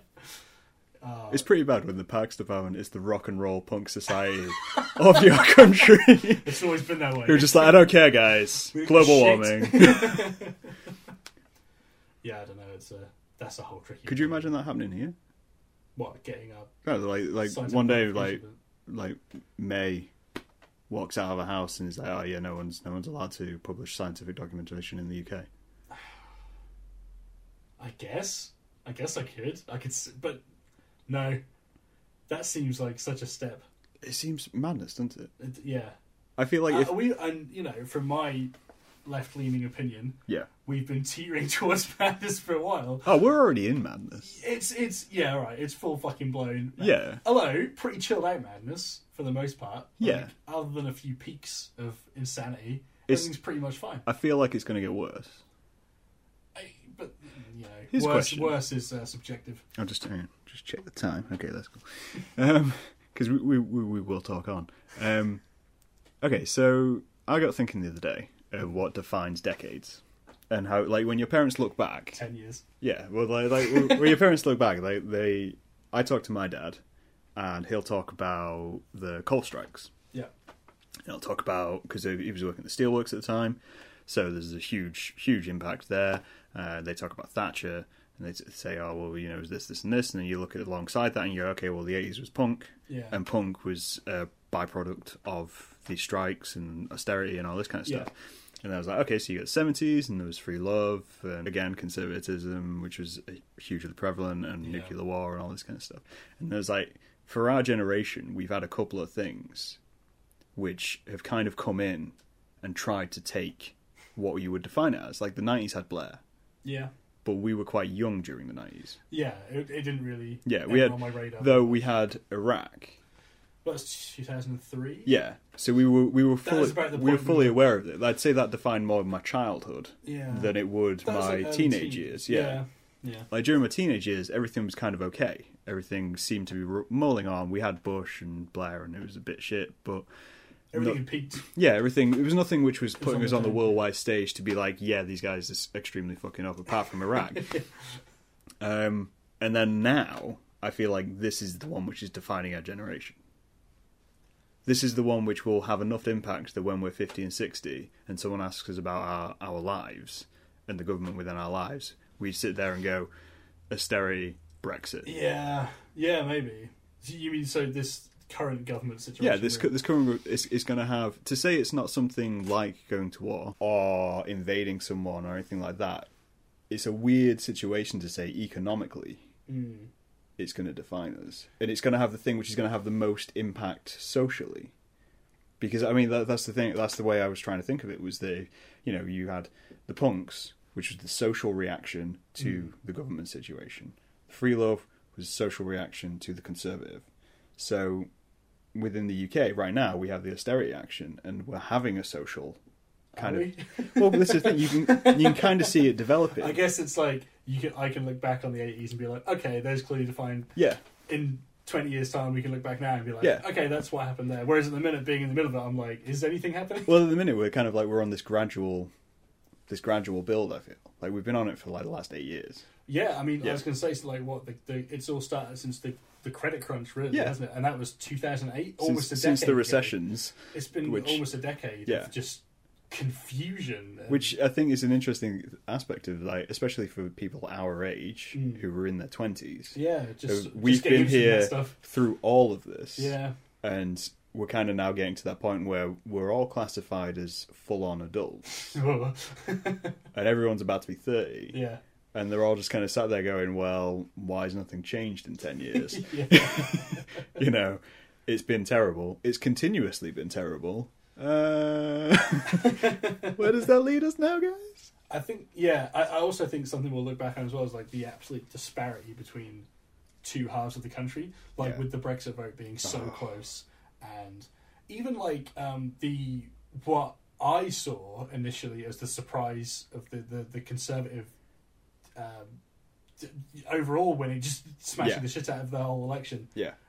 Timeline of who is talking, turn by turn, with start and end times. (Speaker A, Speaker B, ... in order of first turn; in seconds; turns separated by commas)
Speaker A: 1.0-1.5, Speaker B: 1.3-6.6, Speaker A: 6.3-7.9, Speaker B: 7.2-10.3, Speaker A: 8.7-10.6, Speaker A: 12.2-14.5, Speaker B: 14.1-15.2, Speaker A: 16.0-16.7, Speaker B: 16.9-20.1, Speaker A: 17.4-18.6, Speaker B: 20.9-25.5, Speaker A: 27.8-30.4, Speaker A: 31.1-31.4, Speaker A: 32.3-33.6, Speaker B: 34.0-35.3, Speaker A: 35.4-36.0, Speaker B: 36.4-37.1, Speaker A: 36.7-38.5, Speaker A: 39.0-43.1, Speaker B: 43.0-44.4, Speaker A: 44.2-54.1, Speaker B: 46.8-47.2, Speaker B: 50.0-50.3, Speaker B: 53.1-53.3, Speaker B: 54.1-55.4, Speaker A: 56.5-59.6, Speaker B: 57.9-58.6, Speaker B: 59.8-65.4, Speaker B: 66.2-72.2, Speaker A: 72.2-72.6, Speaker B: 72.8-76.8, Speaker B: 77.4-79.9, Speaker B: 81.1-109.8, Speaker A: 92.9-93.2, Speaker A: 104.6-104.9, Speaker B: 110.6-116.2, Speaker A: 116.6-116.9, Speaker B: 117.2-119.0, Speaker A: 119.1-121.8, Speaker B: 120.5-123.0, Speaker A: 123.6-125.2, Speaker B: 125.1-132.6, Speaker A: 126.4-127.6, Speaker A: 130.0-133.3, Speaker B: 133.3-140.1, Speaker A: 140.7-141.5, Speaker B: 140.7-147.6, Speaker A: 143.0-143.8, Speaker B: 148.6-153.2, Speaker B: 154.7-163.1, Speaker B: 163.7-165.1, Speaker A: 165.0-169.8, Speaker B: 169.2-176.1, Speaker B: 176.7-179.2, Speaker A: 179.5-179.9, Speaker B: 180.4-184.7, Speaker B: 185.6-197.1, Speaker B: 197.6-198.1, Speaker B: 198.7-202.6, Speaker A: 203.2-205.9, Speaker B: 203.2-206.6, Speaker A: 206.4-210.6, Speaker A: 211.1-217.0, Speaker B: 216.9-218.9, Speaker B: 219.7-222.6, Speaker A: 222.9-230.0, Speaker B: 228.8-231.2, Speaker A: 230.5-234.4, Speaker B: 231.9-232.1, Speaker B: 234.1-248.5, Speaker A: 238.3-238.6, Speaker A: 239.8-241.8, Speaker A: 243.0-243.3, Speaker A: 248.6-250.0, Speaker B: 250.1-251.6, Speaker A: 251.5-251.8, Speaker B: 252.1-264.9, Speaker A: 255.9-257.3, Speaker A: 262.6-263.4, Speaker A: 265.1-269.7, Speaker A: 270.2-281.3, Speaker B: 272.8-273.2, Speaker A: 282.2-282.6, Speaker A: 283.2-286.5, Speaker B: 285.0-285.3